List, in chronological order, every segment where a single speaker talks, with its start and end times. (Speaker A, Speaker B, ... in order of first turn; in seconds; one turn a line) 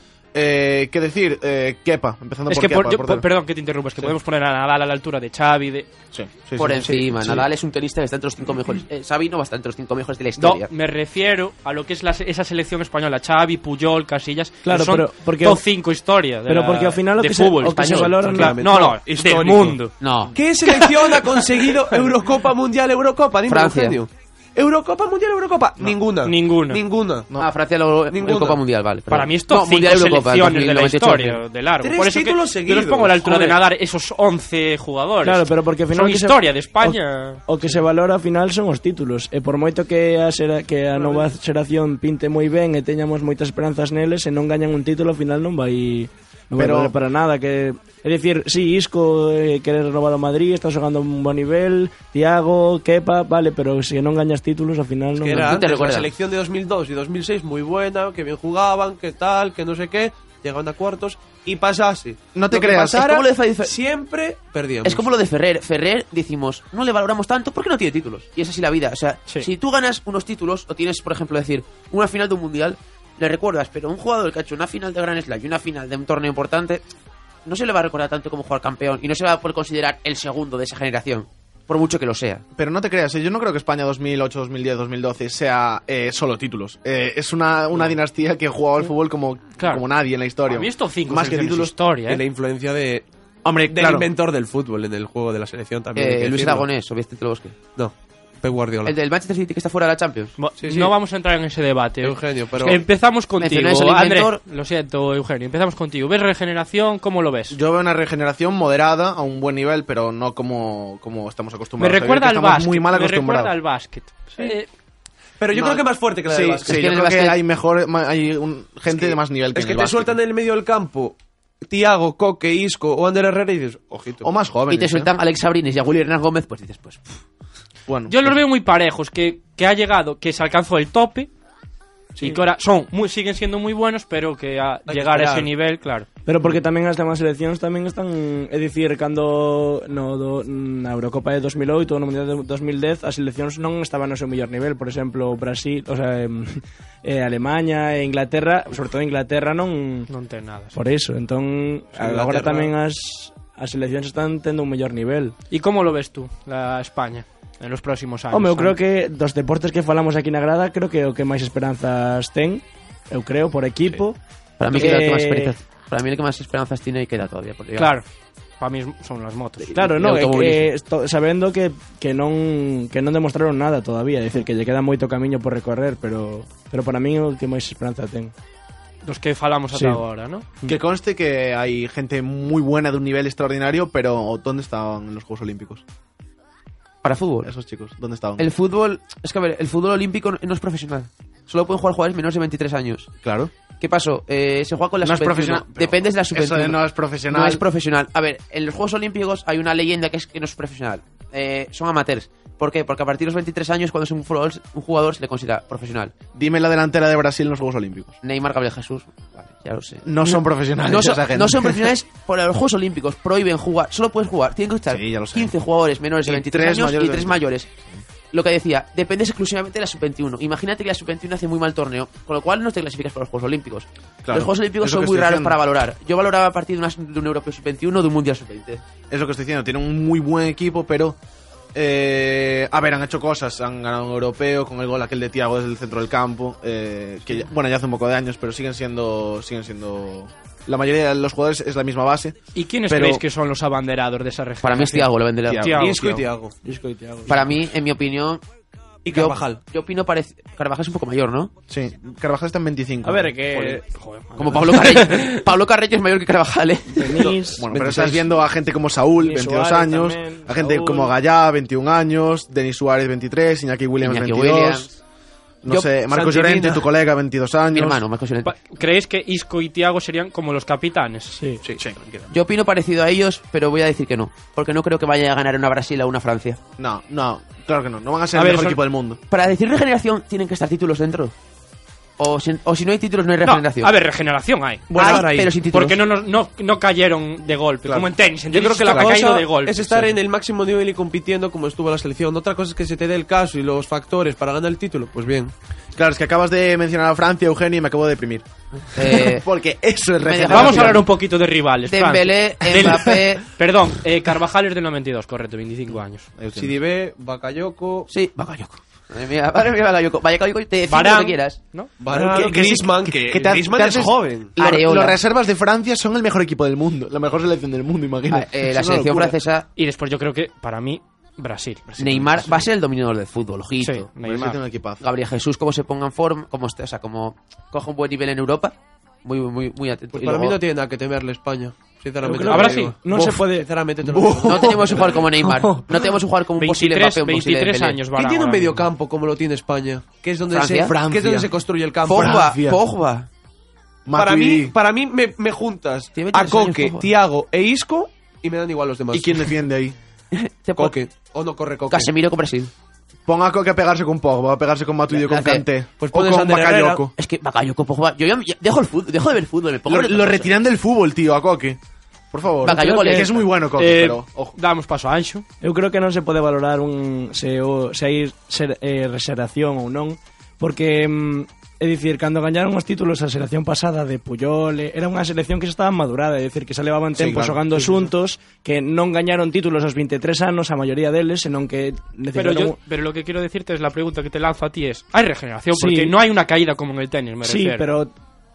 Speaker A: 0.3-3.3
Speaker B: 2.5-5.9
Speaker A: 6.1-7.4
Speaker C: 6.6-10.7
Speaker B: 10.4-19.9
Speaker D: 14.6-15.6
Speaker D: 16.5-18.7
Speaker C: 17.8-18.2
Speaker E: 18.1-19.8
Speaker C: 20.0-20.4
Speaker E: 20.3-27.3
Speaker B: 20.6-21.8
Speaker C: 23.4-24.0
Speaker B: 26.2-26.8
Speaker C: 27.4-31.4
Speaker E: 28.1-28.6
Speaker B: 29.1-37.4
Speaker E: 31.8-33.6
Speaker D: 35.2-55.6
Speaker E: 40.9-41.4
Speaker A: 46.6-46.9
Speaker E: 55.2-65.1
Speaker C: 55.4-56.1
Speaker A: 62.4-63.0
Speaker C: 62.9-63.8
Speaker C: 64.8-76.9
Speaker C: 77.5-82.5
Speaker A: 82.6-91.8
Speaker B: 89.6-89.9
Speaker B: 90.5-92.2
Speaker E: 92.0-93.1
Speaker A: 93.5-94.1
Speaker E: 93.7-96.7
Speaker C: 96.0-97.6
Speaker E: 97.8-98.9
Speaker C: 98.8-100.4
Speaker B: 100.4-107.6
Speaker E: 100.6-100.9
Speaker E: 102.0-102.8
Speaker C: 103.4-104.4
Speaker A: 107.5-113.5
Speaker B: 111.8-114.7
Speaker E: 115.4-116.8
Speaker A: 115.5-120.2
Speaker C: 116.7-117.4
Speaker E: 118.9-124.3
Speaker A: 124.2-125.1
Speaker C: 124.7-127.1
Speaker A: 127.9-128.4
Speaker B: 128.1-131.3
Speaker B: 132.2-136.1
Speaker E: 134.9-135.5
Speaker D: 136.3-150.1
Speaker B: 150.1-150.8
Speaker D: 150.7-155.3
Speaker E: 151.9-152.7
Speaker B: 155.5-158.8
Speaker D: 158.3-164.2
Speaker C: 164.6-167.9
Speaker D: 164.7-165.6
Speaker B: 167.8-168.1
Speaker B: 168.6-169.8
Speaker D: 169.7-178.3
Speaker C: 169.8-170.7
Speaker B: 179.1-180.5
Speaker D: 179.7-180.0
Speaker A: 180.7-185.8
Speaker C: 187.0-187.5
Speaker A: 187.4-188.4
Speaker C: 188.4-193.1
Speaker A: 193.2-193.5
Speaker C: 193.8-206.1
Speaker A: 195.0-197.6
Speaker A: 206.3-208.2
Speaker C: 208.2-217.7
Speaker A: 210.1-211.9
Speaker A: 214.9-215.5
Speaker A: 216.2-218.0
Speaker C: 218.3-228.8
Speaker A: 224.2-225.6
Speaker A: 229.1-231.2
Speaker A: 231.8-243.2
Speaker B: 242.5-246.2
Speaker C: 244.6-245.7
Speaker A: 245.5-246.3
Speaker E: 245.8-246.6
Speaker D: 246.6-247.4
Speaker C: 247.3-248.4
Speaker E: 249.1-249.6
Speaker C: 249.1-251.5
Speaker A: 251.7-253.4
Speaker D: 253.0-253.8
Speaker B: 253.5-255.4
Speaker C: 254.4-257.3
Speaker D: 256.9-258.4
Speaker A: 257.6-264.9
Speaker D: 259.2-261.2
Speaker C: 264.0-264.9
Speaker A: 265.6-268.0
Speaker E: 265.7-266.9
Speaker C: 267.7-268.6
Speaker B: 268.4-271.4
Speaker D: 271.4-271.6
Speaker E: 271.6-272.3
Speaker C: 272.3-276.6
Speaker A: 276.8-279.2
Speaker B: 278.3-278.8
Speaker C: 279.3-281.3
Speaker C: 282.2-283.9
Speaker B: 283.4-290.2
Speaker E: 284.9-285.6
Speaker C: 284.9-286.0
Speaker A: 287.9-288.1
Speaker E: 288.5-295.5
Speaker A: 295.9-301.0
Speaker C: 298.9-299.5
Speaker C: 300.2-301.1
Speaker B: 300.5-306.3
Speaker C: 301.9-303.4
Speaker A: 306.4-306.8
Speaker E: 306.5-308.1
Speaker C: 308.1-311.6
Speaker B: 310.9-311.9
Speaker E: 312.0-314.6
Speaker A: 312.1-319.3
Speaker C: 314.6-315.2
Speaker C: 318.3-319.7
Speaker B: 319.8-321.8
Speaker A: 321.9-322.7
Speaker C: 322.0-324.1
Speaker B: 323.8-324.6
Speaker A: 324.2-325.0
Speaker C: 325.0-330.6
Speaker E: 330.1-335.2
Speaker D: 332.2-336.0
Speaker B: 332.5-332.9
Speaker C: 334.4-338.0
Speaker B: 336.6-338.9
Speaker E: 338.1-342.6
Speaker C: 340.5-341.0
Speaker A: 340.8-342.8
Speaker C: 342.0-343.3
Speaker A: 344.1-344.8
Speaker E: 344.1-349.6
Speaker C: 346.2-347.1
Speaker A: 349.1-349.9
Speaker C: 350.3-350.9
Speaker E: 350.8-352.1
Speaker C: 351.9-352.7
Speaker A: 353.3-357.1
Speaker C: 355.1-355.7
Speaker E: 356.0-357.1
Speaker C: 357.2-360.6
Speaker A: 359.9-361.8
Speaker A: 362.3-364.6
Speaker C: 362.6-363.4
Speaker D: 362.7-363.4
Speaker B: 363.8-365.4
Speaker D: 365.6-382.8
Speaker A: 377.1-377.7
Speaker B: 382.3-387.9
Speaker D: 385.8-386.1
Speaker D: 387.4-388.1